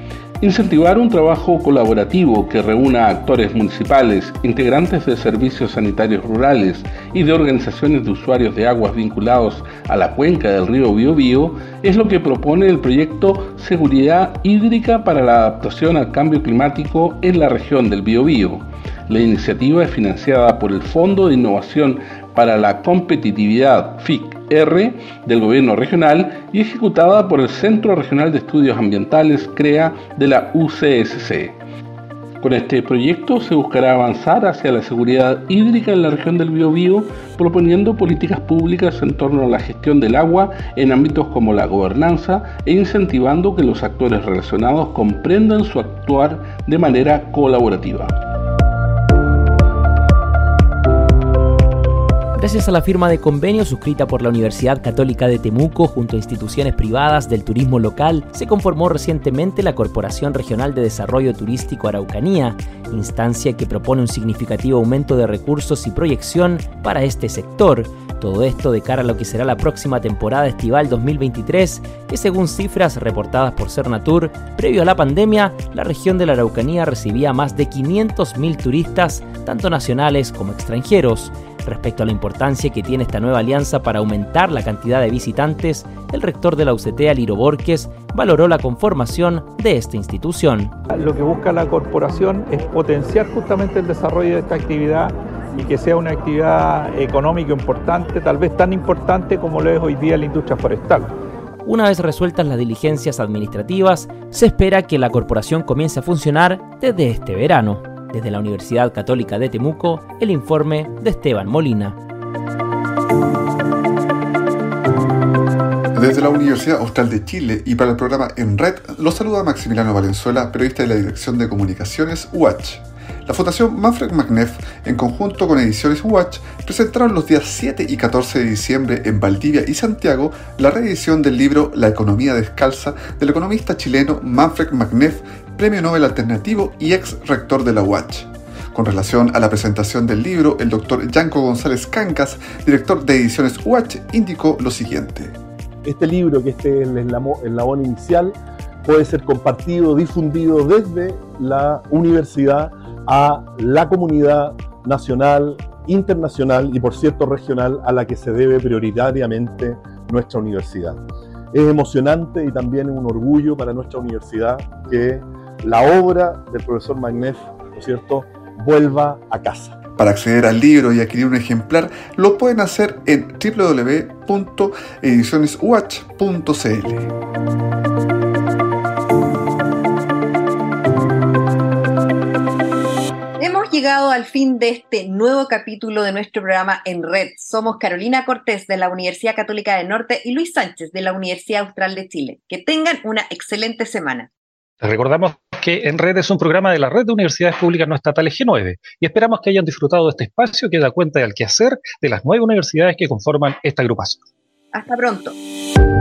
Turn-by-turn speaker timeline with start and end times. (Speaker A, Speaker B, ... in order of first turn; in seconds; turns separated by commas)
Speaker A: 0.4-31.6, Speaker A: 32.4-48.2, Speaker B: 52.4-90.7, Speaker C: 90.9-101.1, Speaker B: 101.6-112.0, Speaker D: 115.9-145.3, Speaker E: 145.8-169.8, Speaker D: 170.0-177.1, Speaker F: 183.4-194.3, Speaker G: 194.8-204.2, Speaker F: 204.7-205.3